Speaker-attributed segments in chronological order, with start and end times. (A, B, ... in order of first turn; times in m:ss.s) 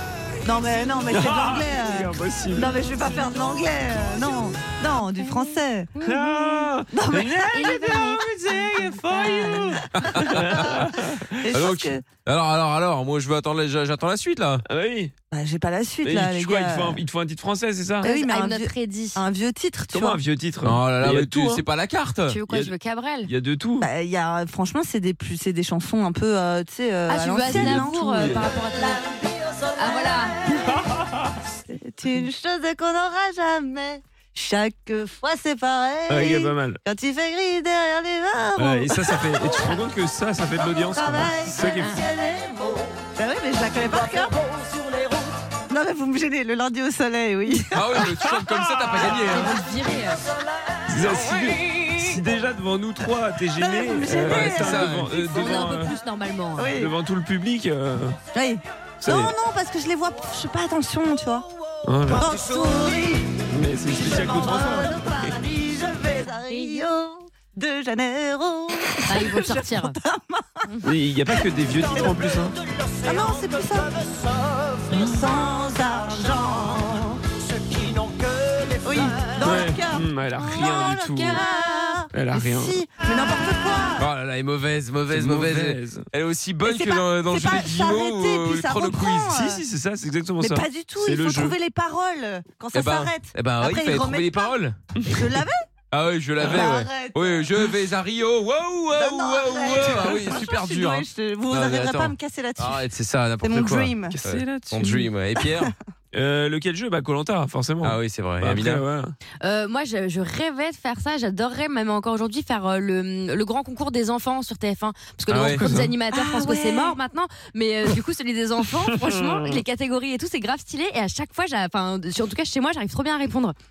0:00.4-0:06.0 A
0:01.1-0:02.8 B
0:05.1-0:06.3 C
0:06.0-0:11.4 B
0:06.9-0:10.7 A
0:07.4-0:08.3 C
0:09.0-0:09.8 C
0:10.0-0:10.8 D
0:11.4-0:12.0 A
0:11.5-0:14.6 D
0:14.7-0:15.1 B
0:15.3-0:17.0 A
0:16.0-0:18.1 B
0:18.0-0:19.2 C
0:18.0-0:20.2 A
0:19.9-0:21.6 B
0:20.6-0:22.4 D
0:22.3-0:23.3 C
0:23.3-0:23.8 B
0:23.8-0:30.9 A
0:27.1-0:29.0 C
0:27.5-0:28.4 B
0:29.8-0:30.4 C
0:31.6-0:39.7 A
0:36.1-0:36.8 B
0:38.6-0:42.0 B
0:40.8-0:48.3 A
0:41.7-0:42.0 C
0:47.7-0:49.6 D
0:49.1-0:50.2 C
0:50.9-0:55.9 B
0:53.6-0:55.6 A
0:54.2-0:55.1 D
0:55.1-0:56.7 C
0:56.6-0:56.9 A
0:56.7-0:58.2 B
0:58.3-1:01.5 A
0:59.0-0:59.3 B
1:01.8-1:02.3 B
1:02.1-1:03.4 A
1:03.5-1:05.0 B
1:03.9-1:10.6 A
1:06.5-1:06.9 C
1:09.0-1:10.0 C
1:10.8-1:12.5 B
1:11.3-1:12.3 A
1:13.0-1:24.0 A
1:19.4-1:21.4 B
1:22.1-1:22.7 B
1:24.0-1:29.3 D
1:25.1-1:26.0 B
1:26.6-1:29.6 A
1:29.3-1:31.5 B
1:30.4-1:34.5 A
1:32.7-1:34.8 D
1:35.1-1:35.6 A
1:35.9-1:45.7 D
1:36.4-1:37.6 A
1:38.9-1:42.8 A
1:39.8-1:40.1 B
1:43.4-1:44.2 A
1:44.1-1:45.1 B
1:45.4-1:45.7 A
1:46.1-1:49.1 B
1:47.8-1:48.8 D
1:49.4-2:03.6 C
1:55.3-1:55.7 D
1:55.6-1:55.9 B
1:56.1-1:57.0 A
1:59.0-1:59.6 B